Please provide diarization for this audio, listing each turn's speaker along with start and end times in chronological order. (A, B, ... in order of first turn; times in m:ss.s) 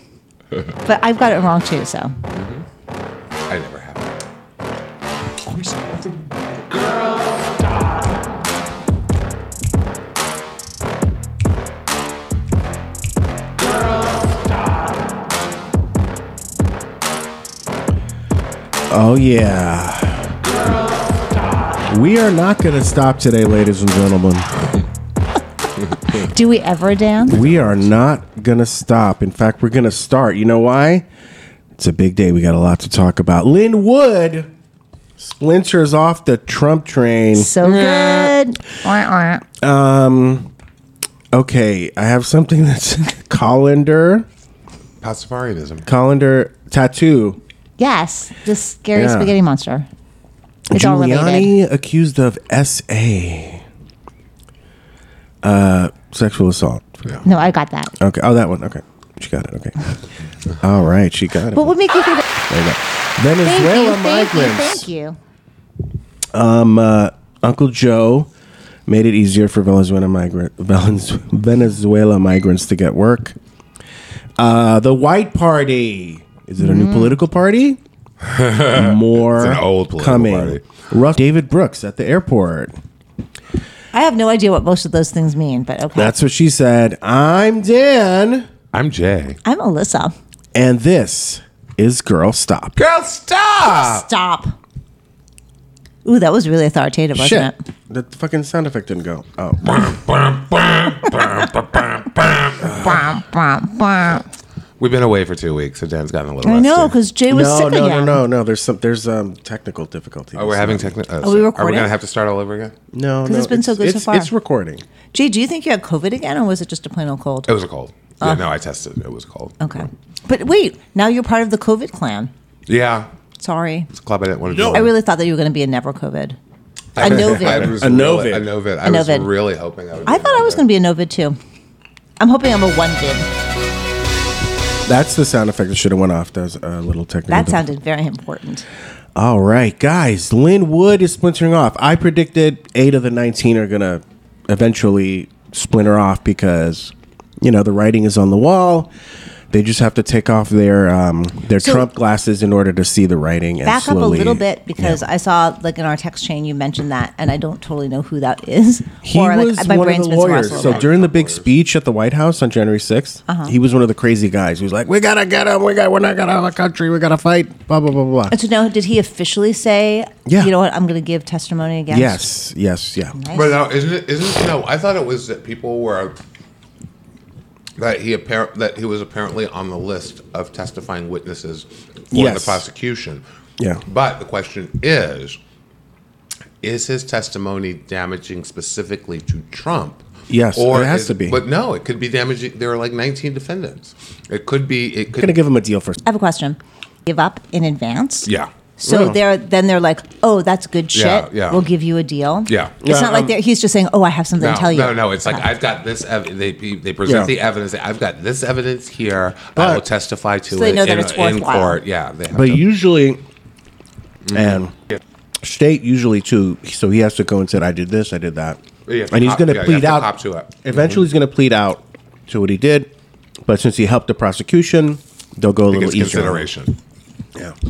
0:00.8-0:02.1 A
0:02.3-0:02.6 B
0:03.5-0:04.1 B
0:18.9-0:20.4 C
0:21.9-0:24.5 C
0:26.1-0:27.4 A
0:27.3-0:31.1 C
0:31.8-0:34.5 C
0:35.2-0:37.5 C
0:37.3-0:39.4 A
0:37.6-0:38.3 B
0:39.6-0:40.5 C
0:41.3-0:44.3 C
0:45.0-0:45.9 B
0:45.9-0:47.4 C
0:47.8-0:49.9 A
0:49.0-0:49.3 C
0:50.7-0:53.6 C
0:50.7-0:51.6 A
0:55.4-0:57.2 C
0:57.2-0:57.9 A
0:58.0-0:59.8 C
1:00.6-1:01.7 C
1:01.5-1:02.2 A
1:02.5-1:04.9 C
1:03.4-1:05.2 A
1:06.3-1:08.3 C
1:08.9-1:13.4 C
1:14.4-1:17.8 C
1:16.6-1:17.2 A
1:18.2-1:20.7 B
1:18.7-1:22.8 C
1:23.9-1:26.2 A
1:26.0-1:28.5 C
1:28.7-1:29.4 B
1:29.4-1:30.1 A
1:30.5-1:32.8 C
1:32.8-1:34.1 B
1:33.6-1:34.6 A
1:36.0-1:37.6 A
1:37.2-1:39.7 C
1:39.6-1:42.7 B
1:42.6-1:43.0 C
1:42.7-1:44.3 A
1:44.8-1:47.0 B
1:46.4-1:48.2 A
1:47.3-1:51.0 C
1:50.4-1:52.8 B
1:51.2-1:51.9 A
1:52.9-1:54.8 C
1:53.2-1:54.3 A
1:55.1-1:57.5 A
1:57.5-1:59.6 B
1:59.6-2:02.3 A
2:02.7-2:03.1 B
2:03.4-2:03.9 A
2:03.9-2:04.9 B
2:04.5-2:04.9 C
2:04.7-2:06.4 A
2:07.0-2:10.6 B
2:07.0-2:07.8 A
2:07.0-2:08.5 C
2:08.8-2:09.3 A
2:10.1-2:11.4 A
2:12.2-2:13.3 A
2:14.9-2:17.6 C
2:17.3-2:18.7 A
2:19.2-2:28.9 C
2:29.5-2:35.0 C
2:31.6-2:31.9 A
2:33.6-2:40.8 A
2:39.0-2:48.3 C
2:40.5-2:41.5 B
2:43.3-2:43.5 A
2:48.3-2:52.2 A
2:50.3-2:50.5 C
2:51.9-2:53.2 C
2:53.2-2:53.6 A
2:53.3-2:56.2 B
2:57.8-3:03.2 B
3:02.1-3:02.6 C
3:03.6-3:03.8 C
3:03.9-3:05.4 B
3:06.6-3:15.4 B
3:10.3-3:11.4 C
3:15.2-3:16.0 C
3:16.0-3:25.5 A
3:18.9-3:19.2 C
3:20.9-3:21.6 B
3:22.5-3:22.8 B
3:22.8-3:23.4 C
3:24.4-3:32.6 B
3:27.1-3:27.3 C
3:29.6-3:29.8 C
3:30.5-3:31.8 A
3:32.3-3:33.2 C
3:34.3-3:35.0 B
3:34.3-3:34.7 C
3:35.4-3:40.1 C
3:38.9-3:41.0 B
3:40.6-3:42.9 C
3:43.5-3:46.5 C
3:45.7-3:46.7 B